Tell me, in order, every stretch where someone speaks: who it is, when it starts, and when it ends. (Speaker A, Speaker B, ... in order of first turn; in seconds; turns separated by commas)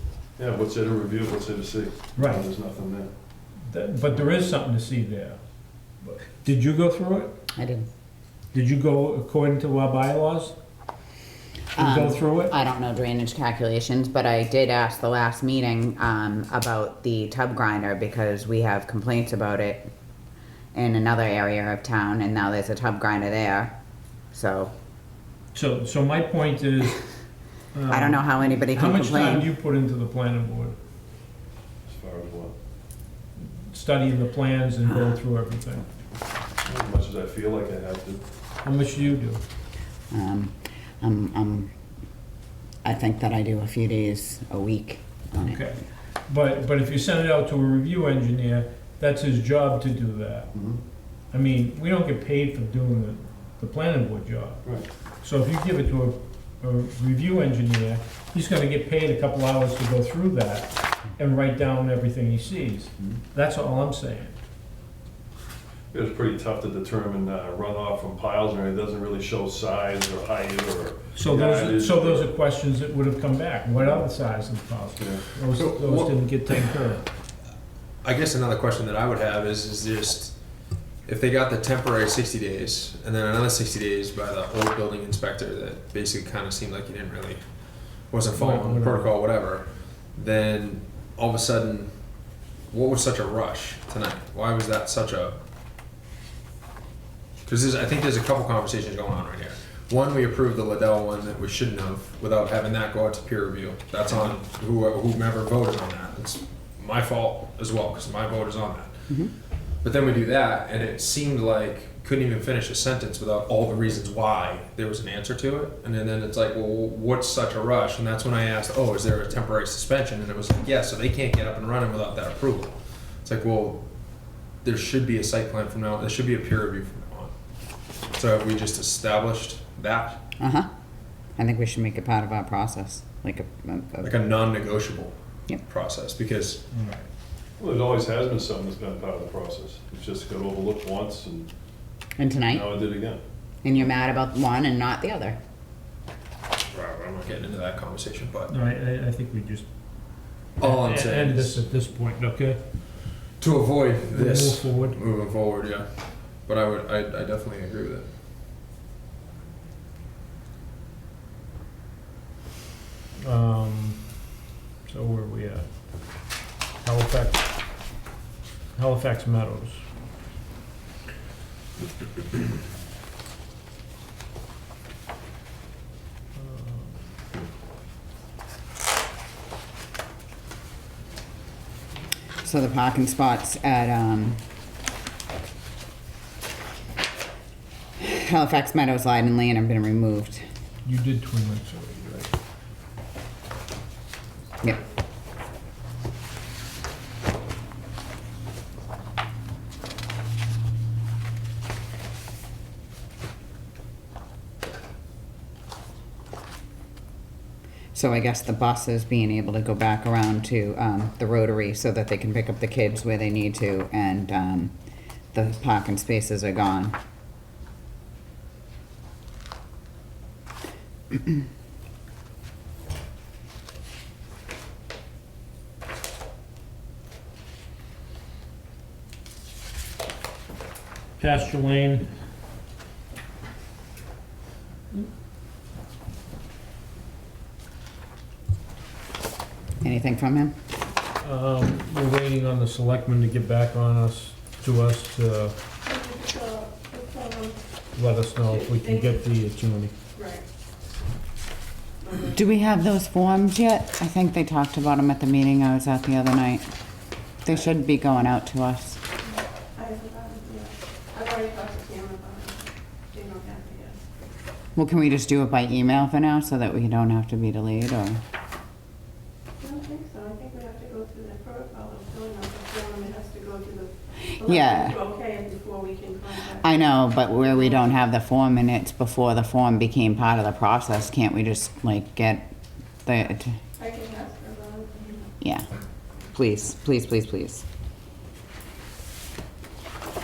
Speaker A: 0.4-3.1, Speaker B: 2.1-2.5, Speaker B: 3.7-5.4, Speaker B: 6.0-7.3, Speaker C: 7.5-7.9, Speaker B: 8.5-10.6, Speaker C: 11.8-19.9, Speaker B: 11.8-12.6, Speaker C: 20.7-23.7, Speaker C: 24.3-24.7, Speaker B: 25.5-27.0, Speaker B: 27.7-30.8, Speaker C: 27.9-29.5, Speaker A: 31.9-32.5, Speaker B: 33.7-35.9, Speaker A: 36.6-38.2, Speaker B: 38.6-39.4, Speaker C: 40.1-41.7, Speaker C: 42.8-45.6, Speaker B: 45.4-50.5, Speaker A: 50.5-50.8, Speaker B: 51.3-54.6, Speaker B: 55.2-64.3, Speaker A: 65.9-72.3, Speaker B: 71.1-77.0, Speaker A: 75.0-75.2, Speaker D: 75.6-76.1, Speaker D: 78.0-80.3, Speaker D: 81.1-87.4, Speaker D: 88.1-91.9, Speaker B: 88.3-89.1, Speaker D: 92.7-95.4, Speaker D: 97.5-109.0, Speaker D: 109.8-123.8, Speaker D: 124.6-127.3, Speaker D: 128.1-130.2, Speaker C: 130.4-130.7, Speaker C: 131.4-134.1, Speaker D: 134.0-136.6, Speaker B: 136.7-137.1, Speaker A: 137.6-141.5, Speaker C: 142.2-142.7, Speaker A: 142.5-143.2, Speaker C: 143.6-145.4, Speaker D: 146.7-148.5, Speaker B: 148.5-149.7, Speaker D: 150.6-151.6, Speaker B: 150.6-152.6, Speaker D: 153.4-155.9, Speaker B: 154.1-155.0, Speaker D: 156.5-158.1, Speaker B: 163.2-164.1, Speaker B: 164.8-166.3, Speaker B: 166.8-167.5, Speaker B: 168.7-169.8, Speaker B: 176.3-177.1, Speaker C: 182.4-184.4, Speaker C: 188.0-190.4, Speaker B: 190.8-192.3, Speaker C: 207.9-214.7, Speaker C: 215.3-216.9, Speaker B: 231.2-232.1, Speaker C: 239.8-240.6, Speaker B: 241.2-245.5, Speaker E: 245.8-247.6, Speaker B: 247.9-249.9, Speaker E: 248.5-249.2, Speaker E: 250.2-250.4, Speaker E: 252.0-252.3, Speaker C: 252.3-256.7, Speaker C: 257.4-259.0, Speaker E: 259.8-264.0, Speaker C: 264.8-268.2, Speaker E: 269.6-276.7, Speaker C: 274.4-275.0, Speaker C: 276.6-282.5, Speaker E: 277.3-277.9, Speaker C: 283.1-283.6, Speaker E: 283.8-285.3, Speaker C: 285.4-285.7, Speaker C: 286.3-287.6